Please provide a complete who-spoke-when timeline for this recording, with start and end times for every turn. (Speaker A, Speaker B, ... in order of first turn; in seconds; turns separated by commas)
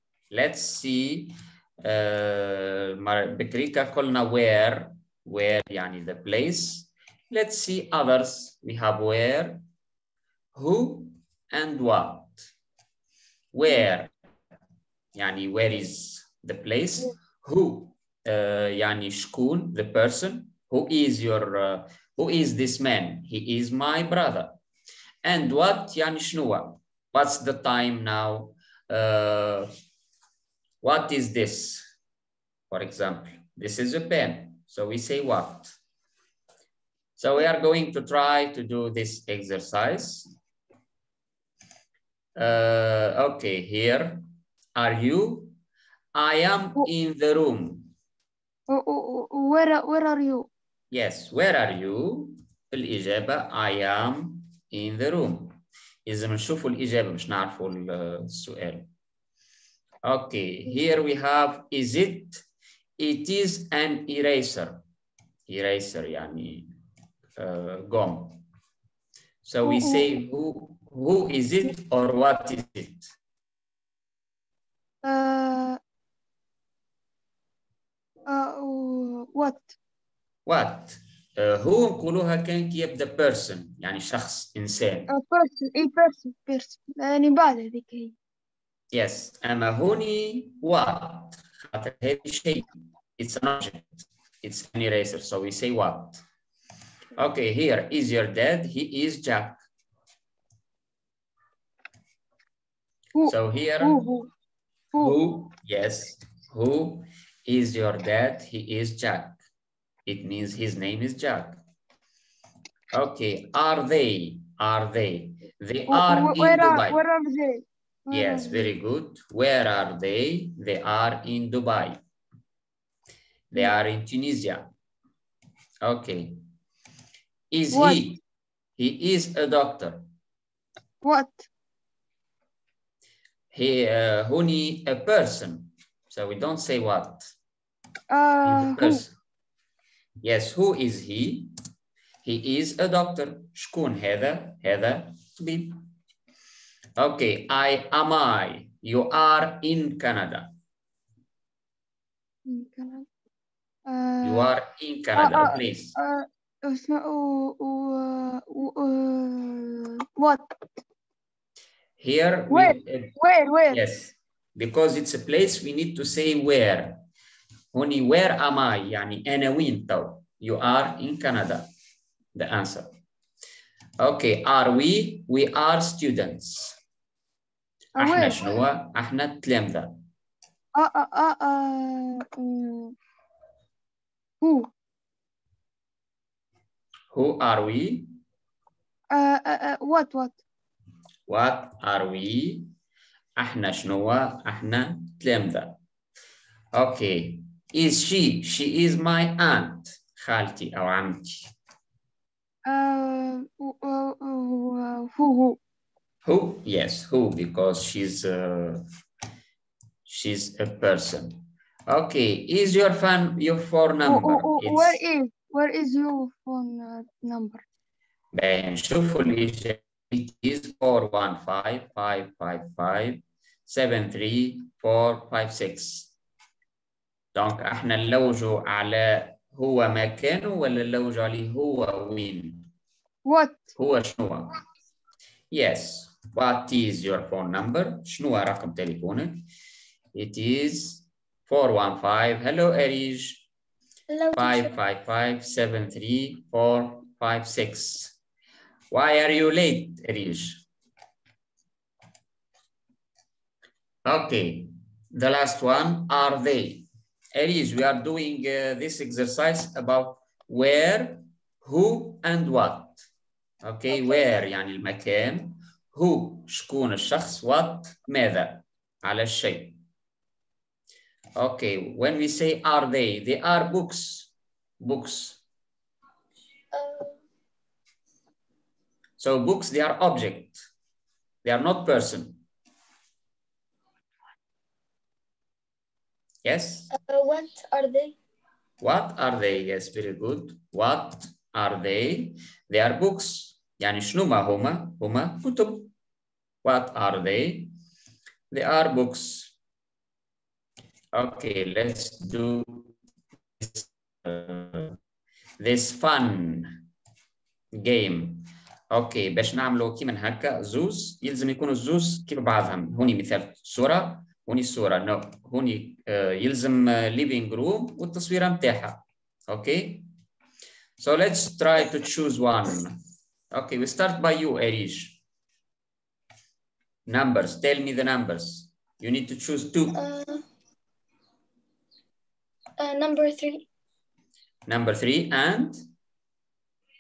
Speaker A: 0.3-9.6, Speaker A: 10.6-12.4, Speaker A: 13.5-14.1, Speaker A: 15.2-24.6, Speaker A: 25.2-29.7, Speaker A: 30.8-31.9, Speaker A: 32.7-35.7, Speaker A: 37.2-40.3, Speaker A: 42.4-44.2, Speaker A: 44.8-45.6, Speaker A: 46.1-47.9, Speaker B: 48.7-50.5, Speaker A: 50.9-58.9, Speaker A: 60.0-62.4, Speaker A: 63.0-64.8, Speaker A: 65.5-66.7, Speaker A: 67.4-68.4, Speaker A: 69.5-73.1, Speaker B: 69.6-70.1, Speaker B: 75.0-75.8, Speaker B: 78.3-79.7, Speaker A: 80.5-85.1, Speaker B: 85.1-88.1, Speaker A: 88.9-92.7, Speaker A: 93.2-96.2, Speaker A: 97.2-99.6, Speaker B: 103.2-104.3, Speaker A: 103.3-104.0, Speaker A: 105.0-109.4, Speaker A: 110.1-111.6, Speaker A: 112.9-117.0, Speaker B: 115.9-118.7, Speaker A: 118.1-122.0, Speaker A: 123.5-124.7, Speaker A: 125.8-126.4, Speaker A: 127.5-128.2, Speaker B: 127.7-128.1, Speaker A: 128.8-130.1, Speaker B: 131.0-131.5, Speaker A: 133.5-137.3, Speaker B: 138.1-139.1, Speaker A: 138.4-139.1, Speaker A: 140.2-141.5, Speaker A: 142.2-145.8, Speaker A: 147.0-150.5, Speaker B: 152.5-153.1, Speaker B: 153.9-154.5, Speaker A: 154.2-156.0, Speaker B: 155.2-160.6, Speaker A: 162.0-163.2, Speaker B: 162.5-163.8, Speaker A: 163.7-167.0, Speaker A: 167.7-171.7, Speaker A: 172.3-172.9, Speaker A: 174.0-176.8, Speaker B: 178.0-178.4, Speaker A: 178.0-179.9, Speaker B: 180.8-182.9, Speaker B: 184.4-184.7, Speaker A: 187.1-188.1, Speaker B: 189.1-190.4, Speaker A: 191.3-192.7, Speaker A: 193.4-195.8, Speaker A: 196.7-201.5, Speaker B: 202.7-205.6, Speaker A: 206.2-208.8, Speaker A: 210.1-215.0, Speaker B: 214.1-217.6, Speaker A: 218.3-226.1, Speaker A: 227.3-232.7, Speaker B: 233.3-233.7, Speaker A: 233.8-234.5, Speaker A: 235.5-239.4, Speaker A: 240.1-243.5, Speaker C: 244.1-244.7, Speaker A: 244.3-248.2, Speaker A: 248.9-250.7, Speaker A: 254.1-263.0, Speaker A: 263.6-269.8, Speaker A: 271.4-275.4, Speaker C: 276.7-277.2, Speaker A: 279.2-280.7, Speaker A: 281.4-282.4, Speaker A: 286.4-286.9, Speaker C: 286.9-288.2, Speaker A: 288.8-295.9, Speaker A: 296.6-297.7, Speaker A: 298.5-299.5, Speaker A: 301.1-302.9, Speaker A: 303.6-305.0, Speaker A: 305.6-306.8, Speaker A: 307.8-320.1, Speaker A: 321.0-323.0, Speaker A: 323.5-325.2, Speaker A: 327.1-330.0, Speaker C: 329.9-330.4, Speaker C: 332.8-333.7, Speaker A: 334.7-335.8